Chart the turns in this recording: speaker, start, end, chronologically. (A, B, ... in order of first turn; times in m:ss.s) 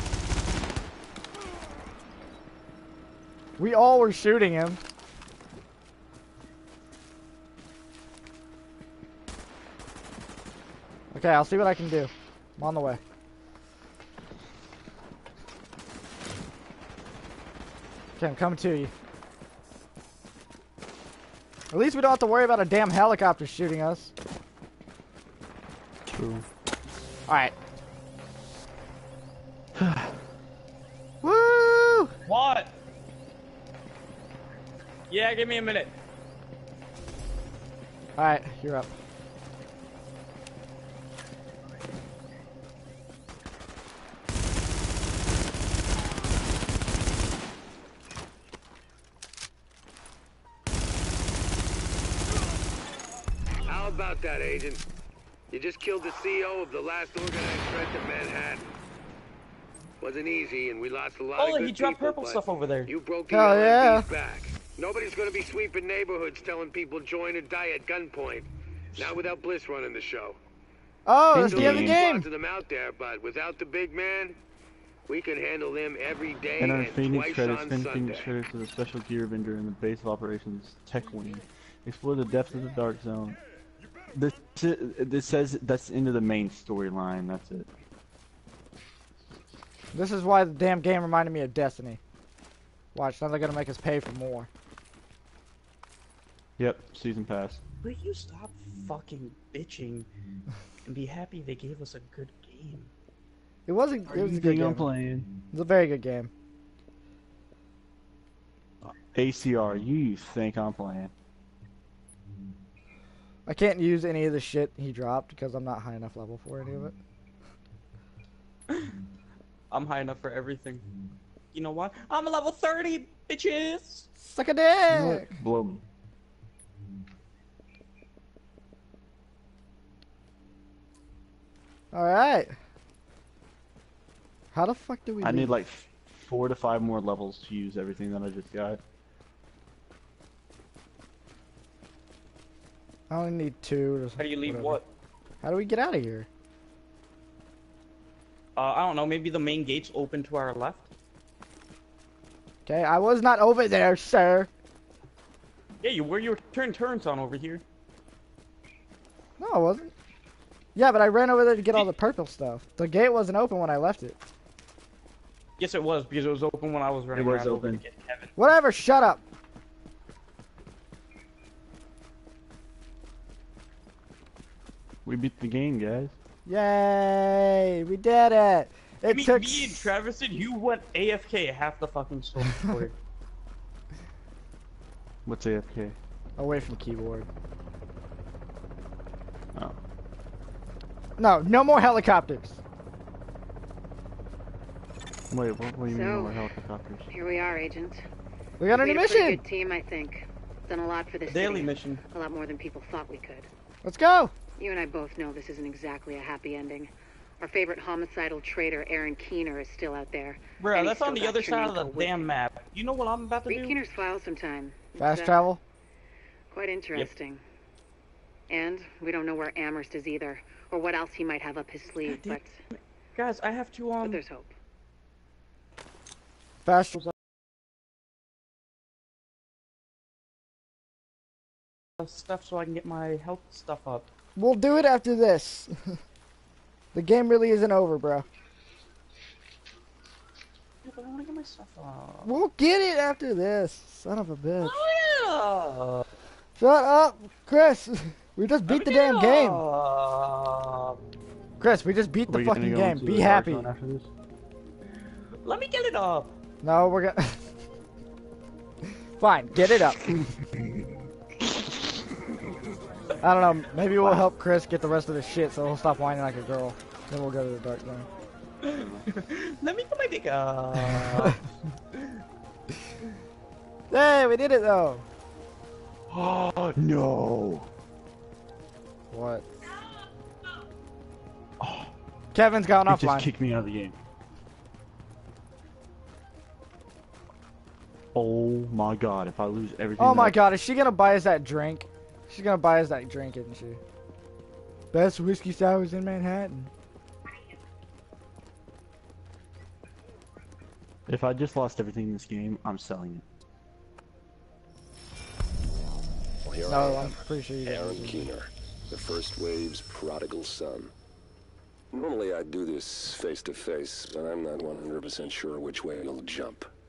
0:03.6-0:04.8 A
0:11.1-0:13.0 A
0:18.2-0:18.9 A
0:21.7-0:24.1 A
0:26.0-0:26.4 B
0:27.3-0:27.5 A
0:29.7-0:30.2 B
0:31.2-0:32.1 A
0:32.3-0:32.7 C
0:35.1-0:36.0 C
0:38.2-0:38.9 A
0:53.7-0:54.8 D
0:55.5-0:58.7 D
1:00.0-1:10.4 D
1:01.4-1:02.9 C
1:03.3-1:04.1 A
1:11.1-1:12.3 A
1:11.3-1:12.0 B
1:11.4-1:14.4 D
1:15.1-1:18.3 D
1:16.6-1:23.4 B
1:24.1-1:27.7 B
1:29.9-1:32.0 A
1:32.9-1:34.5 A
1:36.6-1:37.6 B
1:37.8-1:40.1 C
1:40.8-1:42.9 C
1:43.7-1:44.9 A
1:44.1-1:45.3 B
1:45.5-1:46.3 A
1:48.8-1:51.1 B
1:53.4-1:56.9 A
1:59.7-2:00.8 C
2:01.5-2:04.1 C
2:04.2-2:05.3 A
2:04.9-2:05.8 B
2:11.9-2:12.6 A
2:14.5-2:15.6 A
2:15.2-2:18.8 B
2:23.1-2:24.8 A
2:24.2-2:24.9 C
2:25.4-2:26.3 A
2:28.6-2:30.9 C
2:32.6-2:34.5 A
2:35.8-2:37.6 C
2:39.4-2:39.9 A
2:40.8-2:44.2 A
2:45.6-2:48.3 C
2:47.1-2:47.8 B
2:48.4-2:49.2 A
2:55.0-2:56.1 B
2:56.4-2:59.9 A
2:59.1-3:03.0 C
3:05.2-3:06.0 B
3:06.4-3:07.3 A
3:11.2-3:12.6 A
3:15.3-3:17.1 B
3:15.9-3:16.4 E
3:17.1-3:18.0 E
3:18.6-3:19.4 A
3:18.7-3:23.5 E
3:21.3-3:22.0 C
3:23.8-3:24.3 A
3:24.6-3:32.3 E
3:30.6-3:33.8 C
3:33.5-3:35.4 E
3:35.0-3:35.6 A
3:36.5-3:37.4 E
3:38.5-3:42.6 E
3:42.0-3:44.2 C
3:44.0-3:44.5 E
3:46.6-3:47.0 A
3:52.0-3:54.1 C
3:54.4-3:56.0 A
3:56.9-3:58.3 A
4:00.8-4:02.4 C
4:02.2-4:04.7 A
4:04.6-4:06.1 C
4:06.6-4:09.6 A
4:08.7-4:11.0 C
4:11.6-4:13.7 A
4:12.3-4:14.1 B
4:15.4-4:16.4 C
4:16.6-4:17.4 A
4:19.2-4:20.1 A
4:23.2-4:28.1 A
4:24.0-4:24.3 B
4:28.6-4:31.4 C
4:30.7-4:31.3 B
4:33.9-4:35.0 A
4:36.1-4:37.7 B
4:39.1-4:39.4 A
4:41.6-4:41.9 B
4:42.3-4:43.3 A
4:42.8-4:44.0 B
4:48.1-4:50.4 B
4:50.0-4:53.8 A
4:54.9-4:56.7 A
5:01.1-5:03.2 B
5:06.4-5:10.9 F
5:06.6-5:08.3 A
5:11.9-5:16.7 F